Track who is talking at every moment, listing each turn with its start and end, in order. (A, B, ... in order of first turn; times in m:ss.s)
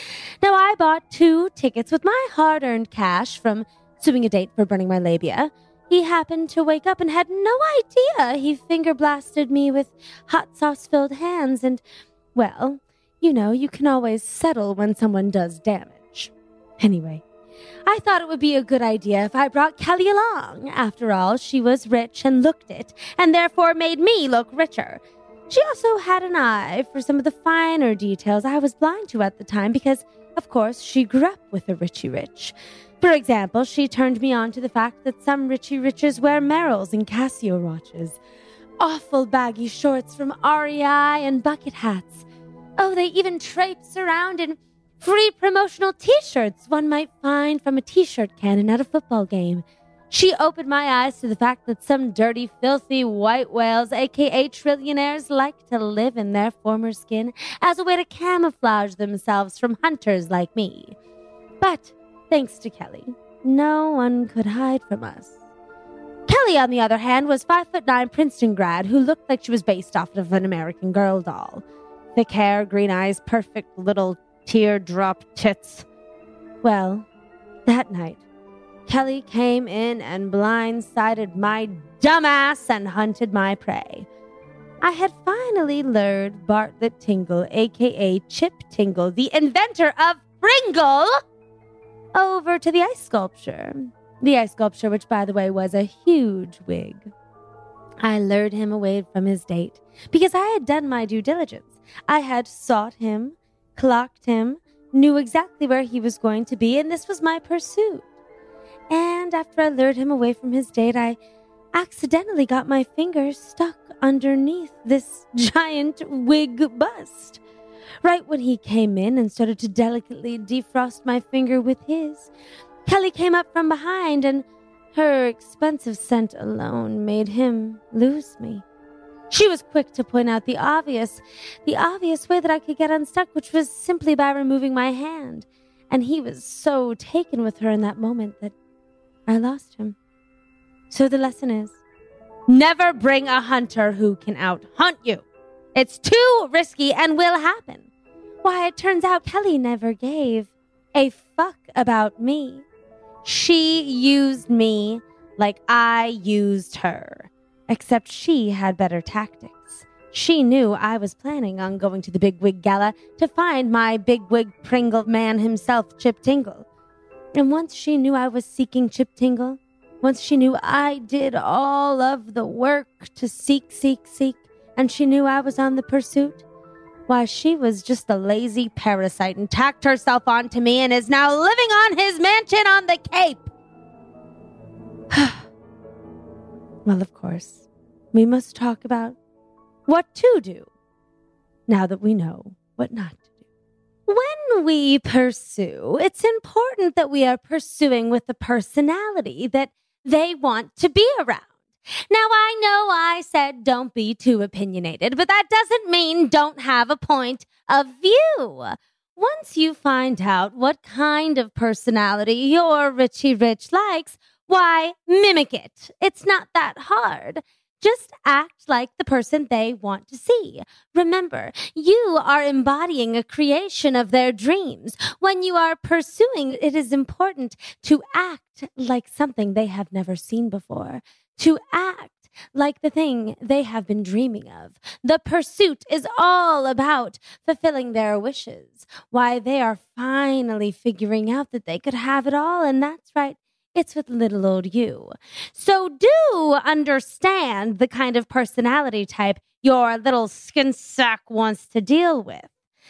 0:00.4-0:11.8 A
0:12.3-0:17.2 A
0:17.8-0:38.2 A
0:38.8-0:42.3 A
0:42.8-1:01.0 A
1:01.6-1:05.3 A
1:06.3-1:11.6 A
1:12.1-1:15.8 A
1:16.6-1:17.1 A
1:17.6-1:18.2 A
1:18.9-1:24.1 A
1:24.8-1:31.2 A
1:32.1-1:37.1 A
1:38.0-1:48.0 A
1:48.9-1:51.2 A
1:51.7-1:57.4 A
1:58.0-2:02.3 A
2:02.8-2:08.6 A
2:09.3-2:18.5 A
2:19.3-2:20.0 A
2:20.9-2:21.8 A
2:22.5-2:27.8 A
2:28.4-2:32.6 A
2:33.2-2:46.6 A
2:47.3-2:56.4 A
2:57.1-3:03.5 A
3:05.1-3:05.4 A
3:06.8-3:09.2 A
3:09.9-3:10.7 A
3:11.7-3:13.2 A
3:14.1-3:21.5 A
3:22.1-4:12.5 A